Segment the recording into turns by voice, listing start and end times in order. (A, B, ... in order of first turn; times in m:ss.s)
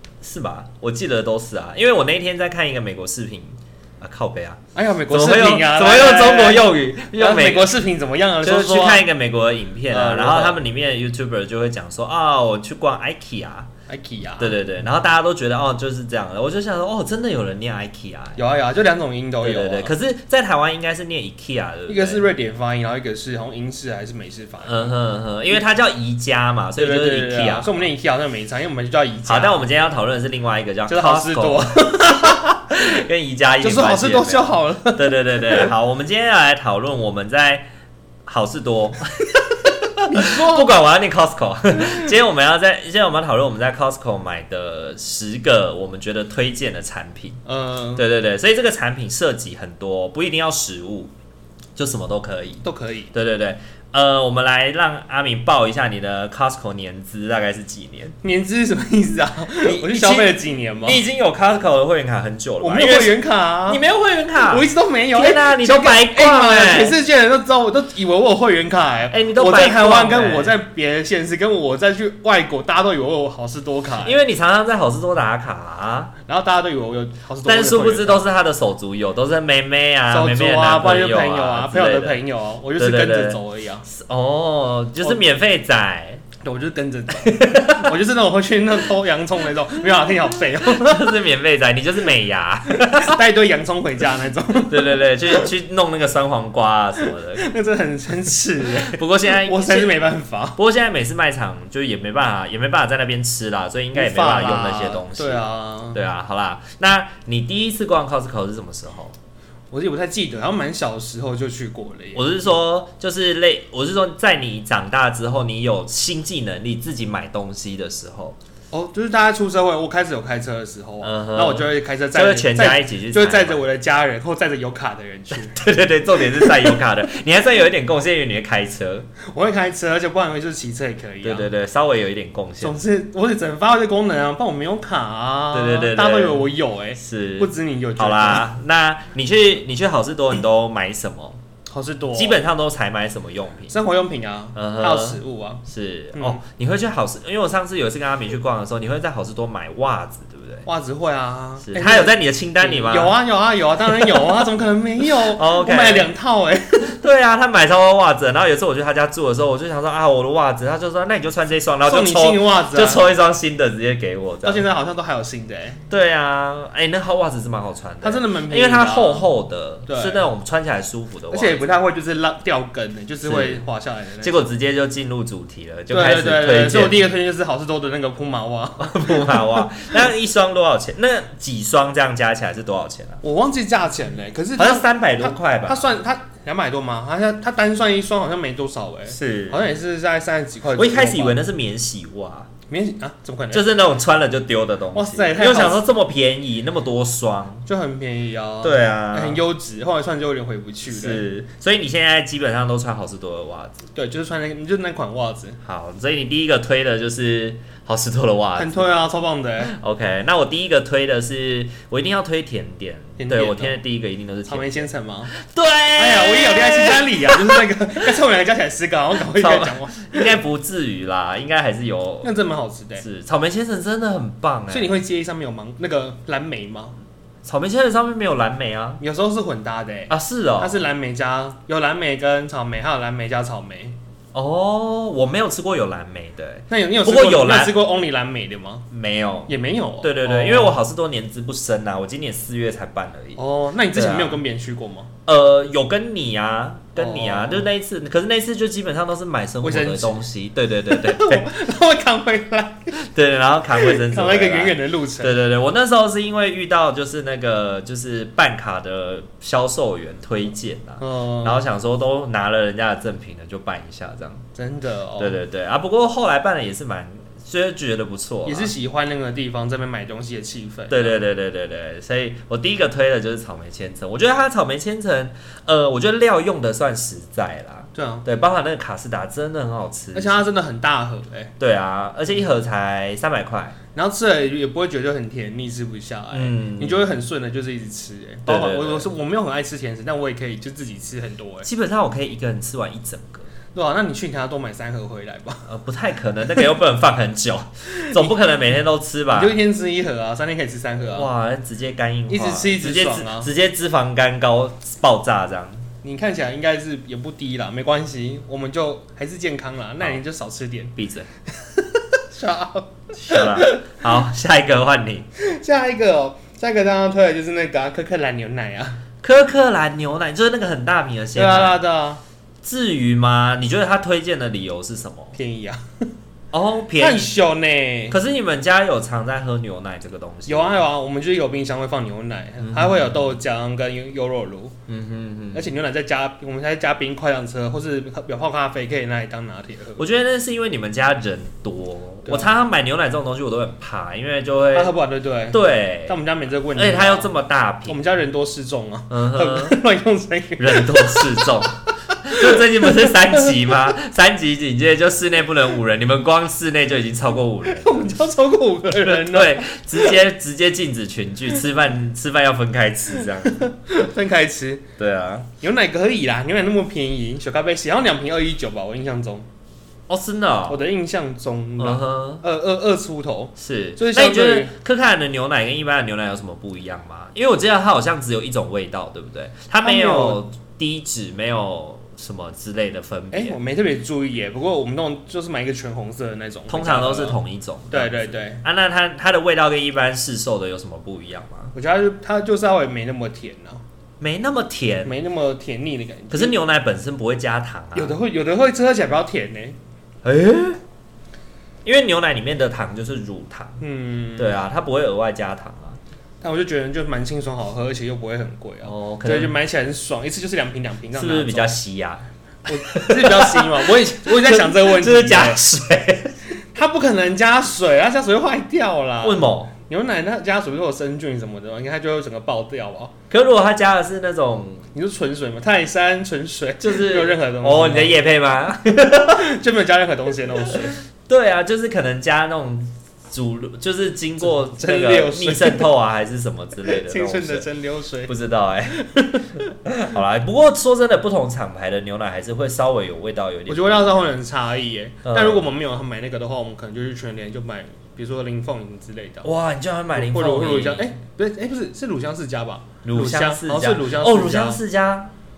0:00.2-0:07.8 A
0:04.7-0:09.1 B
0:08.4-0:13.7 A
0:09.9-0:10.6 B
0:13.9-0:14.6 B
0:14.4-0:18.4 A
0:18.4-0:19.9 B
0:19.4-0:22.3 A
0:21.9-0:24.9 B
0:24.6-0:27.9 A
0:26.8-0:29.6 B
0:29.2-0:37.7 A
0:30.9-0:32.4 B
0:33.6-0:35.7 B
0:38.3-0:47.4 A
0:40.0-0:40.7 B
0:47.4-0:48.0 B
0:47.9-0:51.1 A
0:51.8-0:58.2 A
0:52.6-0:53.1 B
0:58.2-1:01.0 B
0:59.6-1:07.0 A
1:02.6-1:03.8 B
1:04.4-1:14.2 B
1:09.1-1:10.6 A
1:14.0-1:16.1 A
1:16.3-1:18.3 B
1:17.4-1:22.2 A
1:20.1-1:23.8 B
1:22.8-1:26.2 A
1:26.4-1:31.2 B
1:27.2-1:27.9 A
1:30.6-1:33.2 A
1:32.7-1:35.5 B
1:34.6-1:37.5 A
1:37.1-1:40.6 B
1:38.9-1:49.1 A
1:43.9-1:46.0 B
1:49.7-1:52.5 B
1:52.1-1:58.4 A
1:58.7-2:05.6 B
2:01.0-2:03.6 A
2:05.5-2:09.1 A
2:06.3-2:06.8 B
2:09.2-2:11.5 B
2:11.2-2:12.8 A
2:12.6-2:18.4 B
2:15.5-2:16.4 A
2:17.0-2:21.4 A
2:21.7-2:22.4 B
2:22.1-2:23.8 A
2:23.7-2:26.4 B
2:24.5-2:30.7 A
2:30.6-2:36.9 B
2:31.6-2:33.1 A
2:34.0-2:34.4 A
2:35.0-2:36.1 A
2:36.8-2:44.6 A
2:41.8-2:43.0 B
2:44.4-2:45.8 B
2:45.9-2:51.7 A
2:48.0-2:49.3 B
2:49.9-2:50.2 B
2:51.3-2:54.5 B
2:53.2-2:53.6 A
2:54.2-2:57.0 A
2:55.9-2:59.9 B
2:58.8-3:03.2 A
3:03.2-3:11.4 B
3:04.6-3:06.0 A
3:09.1-3:09.7 A
3:10.7-3:12.5 A
3:12.7-3:13.6 B
3:13.5-3:17.6 A
3:14.9-3:15.9 B
3:17.6-3:21.2 B
3:18.6-3:19.4 A
3:20.9-3:23.8 A
3:23.9-3:25.6 B
3:25.6-3:28.9 A
3:28.6-3:29.7 B
3:29.6-3:37.6 A
3:33.2-3:33.8 B
3:34.5-3:35.3 B
3:36.0-3:40.4 B
3:39.3-3:42.3 A
3:42.2-3:43.0 B
3:43.0-3:45.0 A
3:44.7-3:46.9 B
3:47.4-3:49.0 A
3:49.0-3:54.0 B
3:50.1-3:50.8 A
3:54.3-3:57.8 A
3:56.7-3:58.8 B
3:58.9-4:03.4 A
3:59.5-4:00.8 B
4:03.4-4:05.1 B
4:03.9-4:04.4 A
4:05.2-4:11.5 A
4:07.0-4:07.7 B
4:09.6-4:10.2 B
4:10.8-4:12.9 B
4:12.9-4:24.4 A
4:13.7-4:15.4 B
4:21.0-4:21.6 B
4:24.5-4:25.4 B
4:25.2-4:28.7 A
4:28.4-4:31.2 B
4:30.9-4:40.4 A
4:37.9-4:38.2 B
4:40.1-4:41.5 B
4:41.6-4:43.8 A
4:43.9-4:51.7 B
4:46.3-4:47.1 A
4:48.5-4:49.1 A
4:51.6-4:53.5 A
4:53.7-4:55.6 B
4:55.6-4:59.6 A
4:59.3-5:01.3 B
5:01.1-5:05.8 A
5:02.3-5:03.5 B
5:06.0-5:10.9 B
5:11.0-5:11.3 A
5:11.6-5:13.8 B
5:13.1-5:15.3 A
5:15.4-5:19.0 B
5:19.2-5:21.8 A
5:21.3-5:22.2 B
5:22.6-5:25.4 A
5:25.3-5:26.1 B
5:26.5-5:27.3 A
5:27.0-5:28.2 B
5:28.1-5:30.8 A
5:30.5-5:34.7 B
5:32.6-5:33.1 A
5:34.9-5:35.7 A
5:35.5-5:40.0 B
5:40.0-5:44.9 A
5:42.2-5:42.5 B
5:44.7-5:51.5 B
5:45.5-5:46.2 A
5:46.7-5:48.0 A
5:49.1-5:49.8 A
5:50.6-5:58.2 A
5:52.3-5:53.5 B
5:57.6-6:00.2 B
5:59.0-6:03.7 A
6:03.3-6:04.8 B
6:05.0-6:05.5 A
6:05.6-6:09.5 B
6:10.1-6:10.8 A
6:10.7-6:14.7 B
6:11.8-6:12.4 A
6:13.6-6:23.6 A
6:19.8-6:20.4 B
6:23.3-6:27.4 B
6:26.7-6:31.7 A
6:27.9-6:28.6 B
6:31.7-6:33.8 B
6:34.2-6:35.2 A
6:35.0-6:36.6 B
6:36.3-6:38.2 A
6:37.9-6:39.8 B
6:40.2-6:40.8 A
6:41.8-6:43.8 A
6:43.8-6:44.6 B
6:44.4-6:46.0 A
6:46.4-6:51.7 B
6:48.8-6:49.5 A
6:51.1-6:56.4 A
6:52.7-6:55.6 B
6:56.7-7:03.1 B
6:59.2-6:59.7 A
7:03.3-7:04.8 A
7:04.9-7:08.2 B
7:06.8-7:09.5 A
7:09.1-7:11.0 B
7:11.2-7:17.7 A
7:14.4-7:15.9 B
7:16.8-7:18.3 B
7:18.2-7:19.0 A
7:18.9-7:19.6 B
7:19.8-7:24.3 A
7:23.7-7:29.5 B
7:25.2-7:25.6 A
7:29.4-7:31.1 A
7:30.1-7:34.8 B
7:33.0-7:35.3 A